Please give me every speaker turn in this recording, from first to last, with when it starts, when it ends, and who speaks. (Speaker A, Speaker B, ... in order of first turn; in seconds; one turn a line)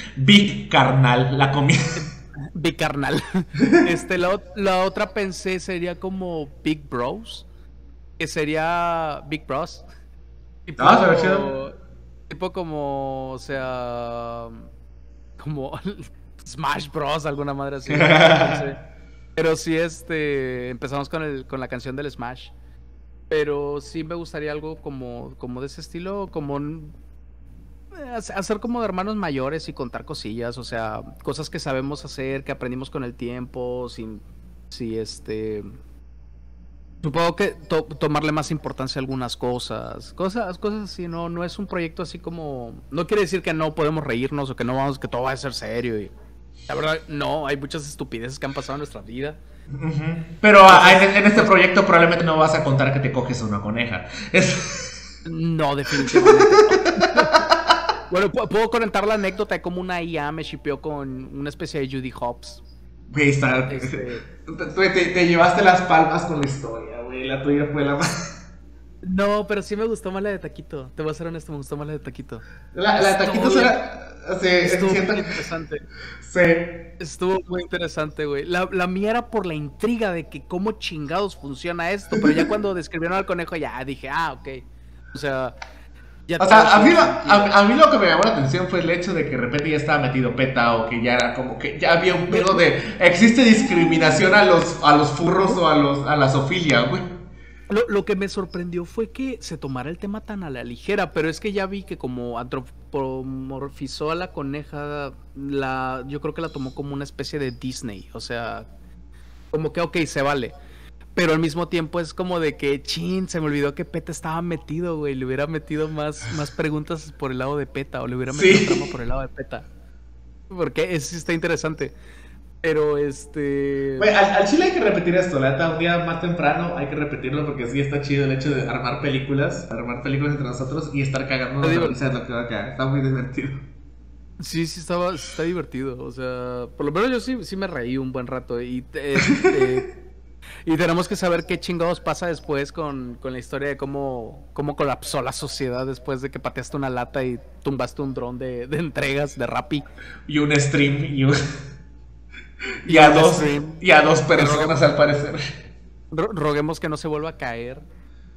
Speaker A: 0.1-2.0
Speaker B: 1.9-7.5
Speaker A: 3.6-3.9
Speaker B: 8.2-9.8
Speaker B: 10.7-11.7
Speaker A: 10.8-11.5
Speaker B: 12.3-14.6
Speaker B: 15.4-18.8
Speaker A: 17.9-18.6
Speaker B: 19.4-22.5
Speaker B: 23.3-26.9
Speaker B: 27.9-35.7
Speaker B: 37.0-46.1
Speaker B: 46.7-49.4
Speaker A: 49.7-54.9
Speaker B: 50.7-51.5
Speaker B: 55.2-57.4
Speaker A: 56.0-57.4
Speaker B: 58.1-62.6
Speaker A: 63.1-68.1
Speaker B: 63.7-64.2
Speaker B: 69.0-72.4
Speaker A: 72.7-75.2
Speaker B: 73.0-73.8
Speaker B: 74.6-75.8
Speaker A: 76.2-76.7
Speaker B: 77.0-85.6
Speaker A: 82.1-82.4
Speaker B: 86.3-87.5
Speaker A: 86.4-97.1
Speaker B: 92.3-92.6
Speaker B: 93.6-94.2
Speaker B: 97.7-108.7
Speaker B: 109.5-110.5
Speaker B: 111.1-119.7
Speaker A: 118.3-118.7
Speaker B: 120.5-121.9
Speaker B: 122.6-124.1
Speaker A: 124.0-133.6
Speaker B: 131.6-132.0
Speaker B: 134.4-139.9
Speaker B: 140.6-149.9
Speaker A: 150.3-151.4
Speaker A: 152.8-155.4
Speaker B: 152.9-153.8
Speaker B: 154.3-154.8
Speaker B: 156.1-157.8